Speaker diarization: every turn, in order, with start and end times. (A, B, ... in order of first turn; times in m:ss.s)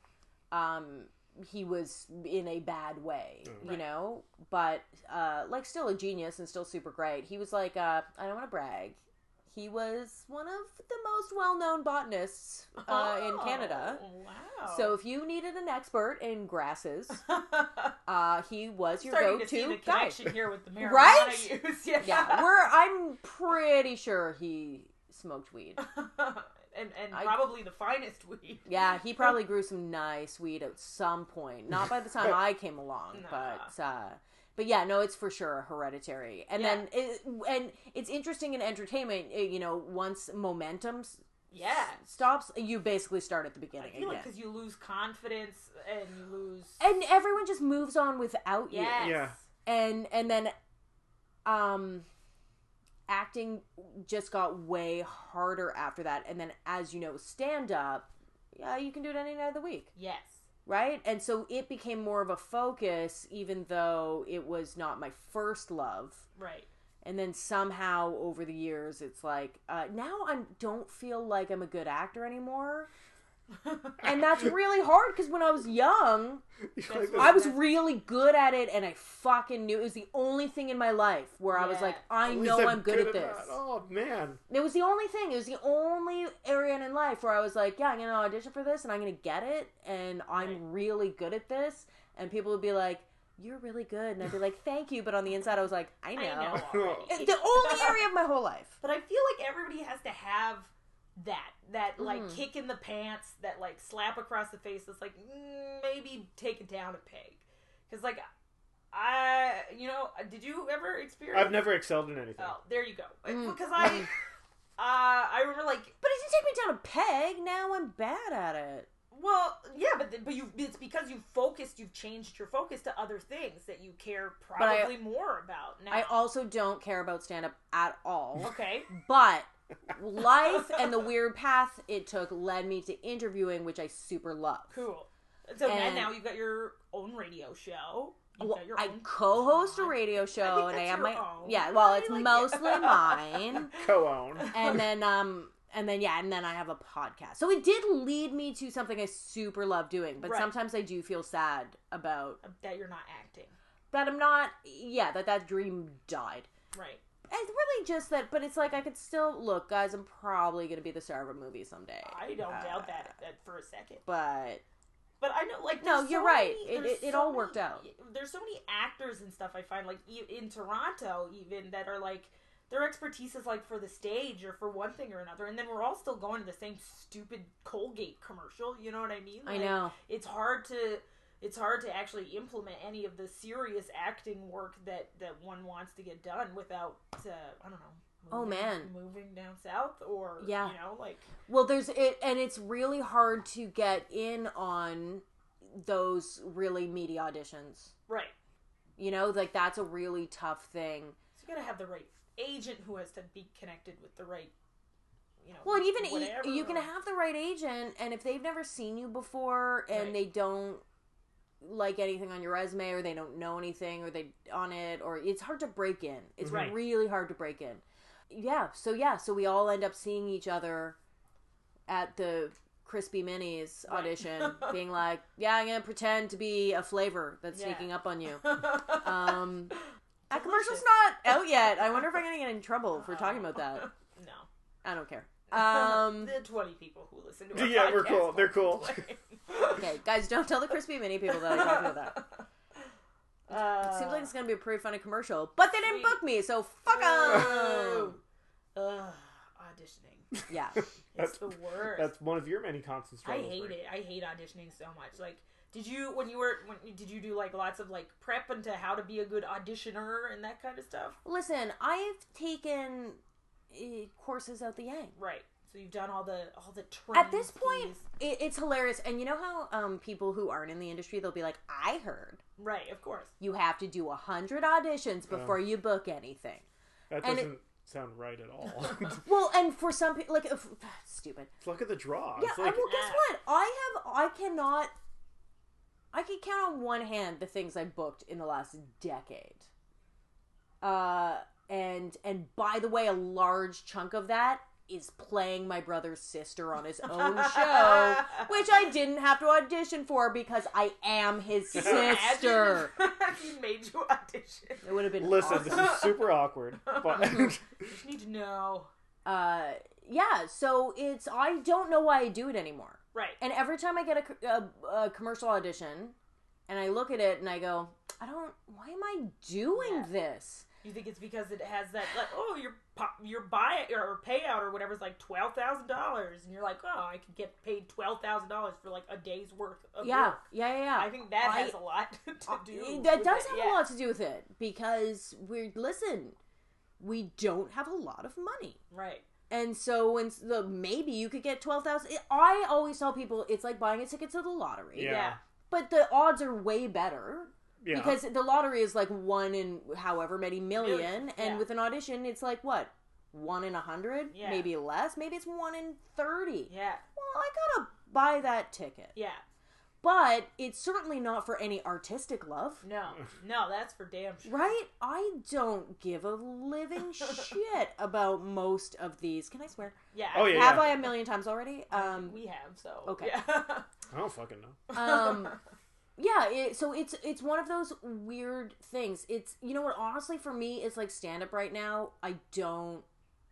0:00.5-0:14.0 A
0:12.8-0:15.0 B
0:14.7-0:17.2 A
0:17.2-0:18.0 B
0:18.1-0:25.8 A
0:19.0-0:22.5 B
0:25.8-0:29.3 B
0:27.1-0:27.5 A
0:28.7-0:41.2 A
0:33.1-0:33.7 B
0:36.5-0:36.9 B
0:41.5-0:42.0 B
0:42.0-0:44.3 A
0:43.8-0:46.8 B
0:46.8-0:50.6 A
0:48.7-0:49.4 B
0:49.0-0:49.4 C
0:51.4-0:52.1 A
0:53.1-0:59.9 A
1:00.0-1:00.4 B
1:00.7-1:06.2 A
1:06.4-1:06.7 B
1:07.0-1:12.9 A
1:13.6-1:14.0 B
1:14.0-1:16.4 A
1:16.7-1:17.4 C
1:16.9-1:17.6 B
1:17.2-1:23.6 A
1:21.5-1:22.0 B
1:22.2-1:24.4 C
1:24.5-1:38.8 A
1:30.4-1:30.6 B
1:36.1-1:38.0 B
1:36.5-1:37.2 C
1:38.8-1:48.3 B
1:42.0-1:42.4 A
1:48.9-1:51.8 B
1:51.3-1:52.6 C
1:52.4-1:54.1 B
1:53.3-1:54.0 A
1:54.8-1:56.0 B
1:56.0-1:58.9 A
1:59.1-2:06.2 B
2:04.6-2:05.0 A
2:05.9-2:14.8 A
2:08.4-2:08.9 B
2:14.7-2:23.8 B
2:15.6-2:16.2 A
2:18.4-2:23.8 A
2:23.7-2:24.7 C
2:24.4-2:24.8 B
2:24.5-2:32.4 A
2:30.2-2:30.5 B
2:32.4-2:33.6 B
2:33.9-2:36.5 A
2:36.7-2:37.0 B
2:37.3-2:43.1 A
2:42.0-2:44.0 B
2:44.1-2:44.6 A
2:45.2-3:11.3 B
2:45.8-2:47.8 A
2:59.5-2:59.9 A
3:08.3-3:08.9 A
3:10.4-3:10.8 A
3:11.5-3:17.9 A
3:18.1-3:18.3 B
3:19.0-3:21.2 A
3:21.4-3:24.5 B
3:25.4-3:26.9 B
3:25.6-3:30.8 A
3:29.9-3:30.2 B
3:31.6-3:41.0 A
3:36.4-3:36.8 C
3:36.5-3:36.8 B
3:41.9-3:49.8 A
3:43.9-3:44.8 B
3:47.5-3:49.4 B
3:50.3-3:50.8 B
3:50.3-3:53.9 A
3:53.0-3:54.5 B
3:54.8-3:56.3 A
3:55.5-3:59.8 B
3:57.5-3:59.0 C
3:59.7-4:02.2 A
4:01.3-4:02.4 B
4:03.5-4:04.3 B
4:03.5-4:08.2 A
4:05.8-4:06.2 B
4:06.9-4:08.2 B
4:08.8-4:10.3 B
4:10.5-4:10.8 A
4:11.1-4:12.1 B
4:11.2-4:13.8 C
4:13.2-4:21.2 B
4:21.2-4:23.2 A
4:23.7-4:25.2 A
4:25.2-4:28.0 B
4:27.1-4:32.4 A
4:32.6-4:33.3 B
4:33.4-4:36.6 A
4:35.3-4:35.6 C
4:37.1-4:39.3 C
4:37.2-4:37.5 A
4:39.2-4:41.5 A
4:41.6-4:42.9 C
4:42.4-4:44.9 A
4:42.8-4:43.2 B
4:46.1-4:49.7 A
4:50.8-5:02.9 A
4:57.1-4:58.5 B
5:01.7-5:04.9 B
5:04.8-5:06.0 A
5:05.2-5:07.9 C
5:05.4-5:06.3 B
5:06.8-5:08.9 B
5:09.2-5:16.2 A
5:13.1-5:13.4 B
5:16.7-5:20.7 A
5:19.7-5:20.1 B
5:20.8-5:30.4 B
5:30.0-5:31.8 A
5:30.9-5:33.8 B
5:32.5-5:36.4 A
5:37.0-5:38.8 A
5:38.9-5:39.3 B
5:39.5-5:59.1 A
5:45.0-5:45.4 C
5:45.0-5:45.4 B
5:47.8-5:48.2 C
5:50.8-5:51.6 B
5:54.3-5:54.7 B
5:56.7-5:57.0 B
5:59.2-5:59.4 B
6:00.0-6:02.8 A
6:02.8-6:04.8 B
6:04.5-6:12.4 A
6:10.1-6:11.1 B
6:10.3-6:11.0 C
6:11.9-6:13.9 B
6:13.0-6:13.4 A
6:14.1-6:14.8 C
6:14.9-6:15.6 B
6:14.9-6:15.6 A
6:16.2-6:23.1 A